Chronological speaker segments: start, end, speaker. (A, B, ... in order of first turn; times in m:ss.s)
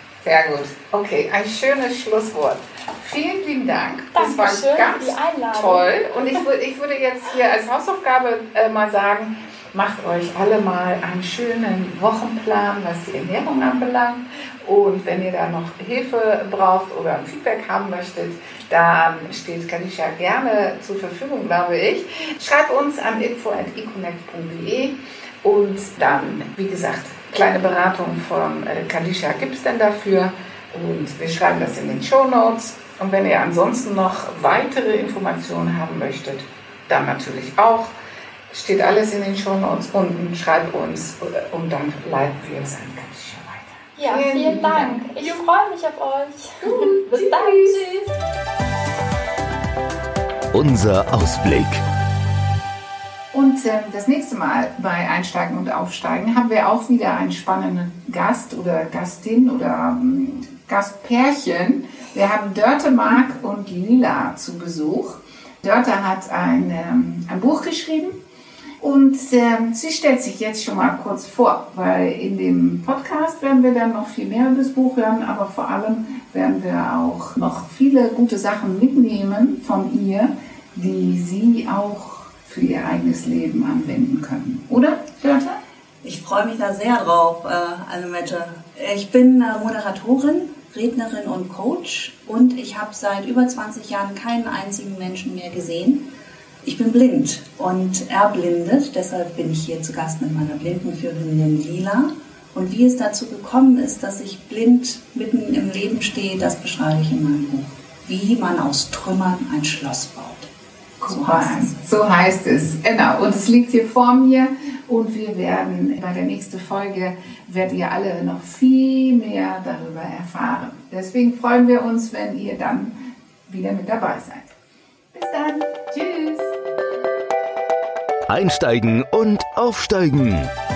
0:00.2-0:37.9 A
0:04.1-0:05.9 B
0:38.5-0:45.4 A
0:44.0-0:48.2 B
0:46.6-0:47.8 A
0:50.5-0:51.8 C
0:53.3-1:08.2 A
1:08.8-1:25.6 A
1:26.0-1:36.0 D
1:36.6-1:50.5 D
1:51.0-2:03.0 A
1:51.0-1:51.8 D
2:03.5-2:04.5 A
2:05.1-2:06.5 A
2:08.3-2:10.5 C